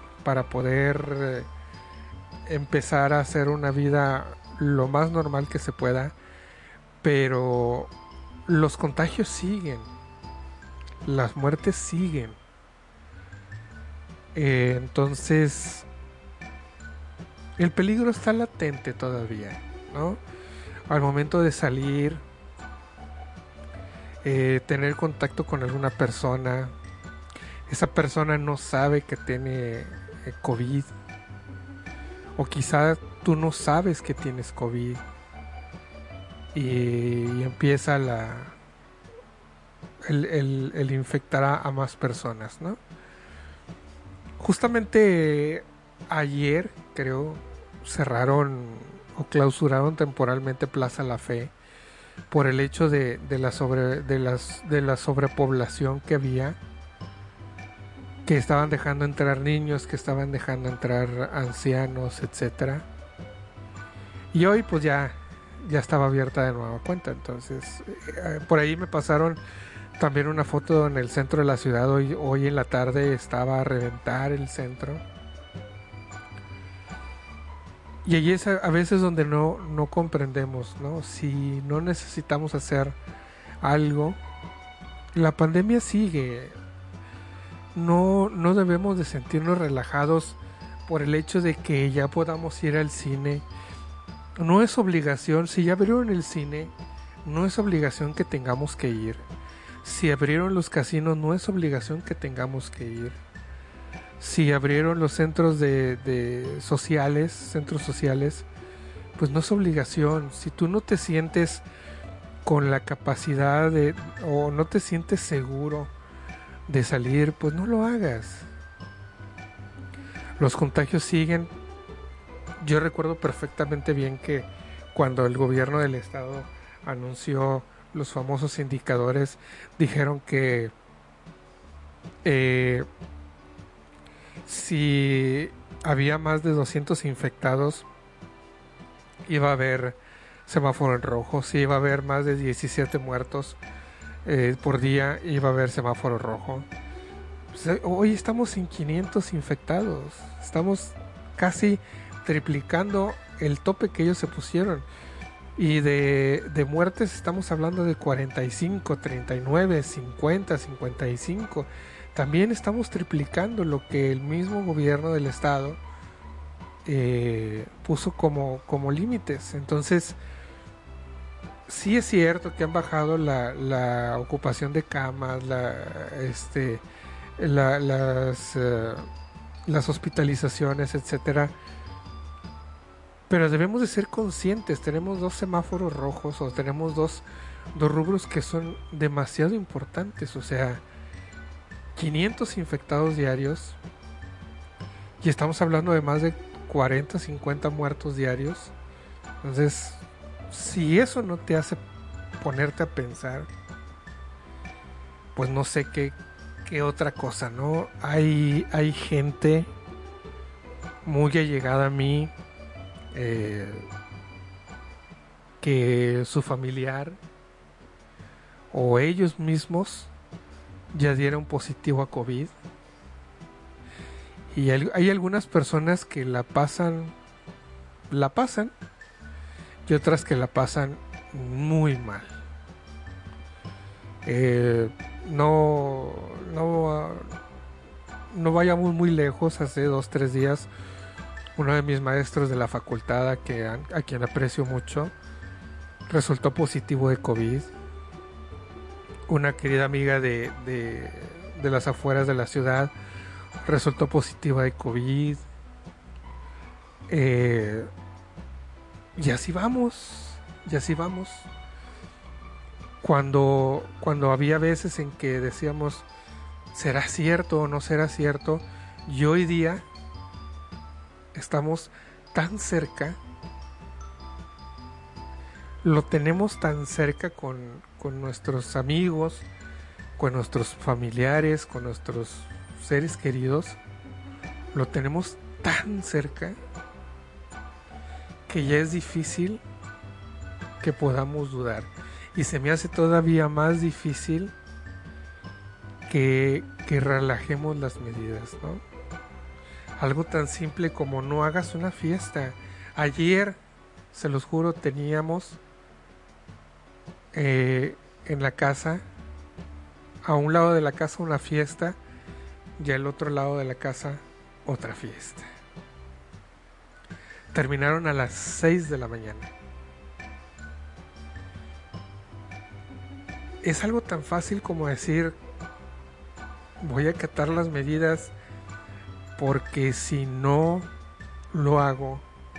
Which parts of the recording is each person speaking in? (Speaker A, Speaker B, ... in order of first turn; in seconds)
Speaker A: 0.2-1.5, 2.5-6.1, 7.0-7.9, 8.4-9.9, 11.1-12.4, 14.3-15.8, 17.6-20.2, 20.9-22.2, 24.2-26.7, 27.7-30.9, 32.4-35.0, 36.5-38.5, 40.0-42.8, 44.4-51.5, 52.3-56.6, 58.3-62.9, 64.3-69.4, 70.0-75.0, 78.0-83.0, 83.6-84.2, 85.1-86.6, 87.7-93.5, 94.4-96.7, 97.2-99.2, 99.8-103.2, 104.2-108.5, 109.2-111.6, 112.4-115.9, 116.7-118.5, 120.4-121.5, 122.6-130.7, 132.2-132.8, 134.4-137.8, 139.3-143.6, 144.2-146.7, 147.5-154.8, 155.6-165.8, 166.8-170.2, 171.7-176.8, 177.4-179.1, 179.7-181.5, 183.3-190.8, 191.9-193.8, 195.2-198.7, 199.4-201.8, 202.4-203.5, 205.3-209.7, 211.1-212.3, 213.1-213.8, 215.6-217.2, 218.7-220.1, 220.9-222.5, 224.5-227.1, 228.1-228.7, 229.8-232.3, 234.2-237.3, 238.3-240.7, 241.6-245.1, 246.1-247.7, 249.3-252.9, 253.6-255.4, 257.1-257.9, 259.1-261.5, 263.0-266.1, 266.7-269.9, 271.3-273.2, 275.8-279.5, 280.2-283.8, 284.7-286.6, 288.5-289.6, 290.8-294.5, 296.1-298.8, 300.0-303.6, 304.1-305.6, 307.3-309.0, 310.3-312.0, 312.8-315.5, 317.5-319.5, 323.6-325.4, 326.8-328.3, 329.4-330.9, 331.5-332.2